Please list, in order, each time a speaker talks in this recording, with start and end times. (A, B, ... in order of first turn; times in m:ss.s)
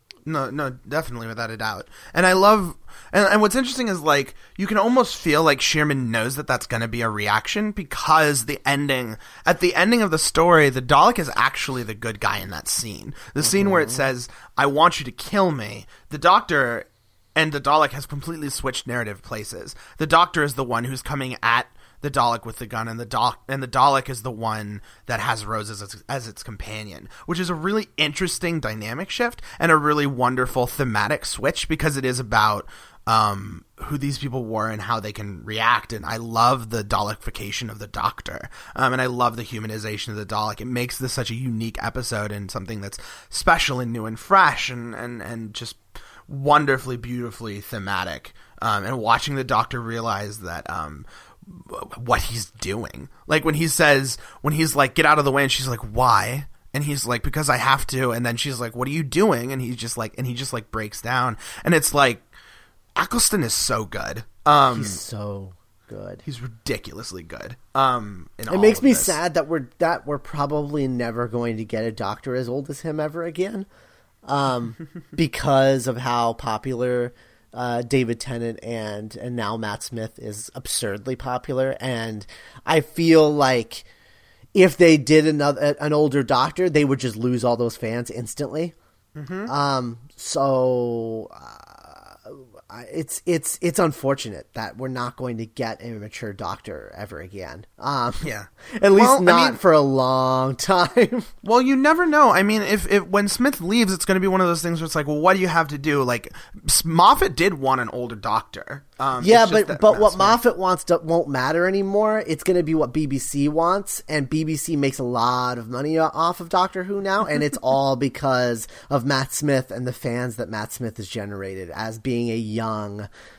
0:00.3-1:02.3 A
0:13.4-0:14.0 B
1:03.0-1:05.0 A
1:04.7-1:06.2 B
1:06.2-1:09.2 A
1:08.5-1:13.7 B
1:14.3-1:23.9 B
1:24.6-1:28.8 B
1:29.2-1:29.5 A
1:29.5-1:41.3 B
1:38.2-1:39.6 A
1:41.4-1:50.4 A
1:49.2-2:03.1 B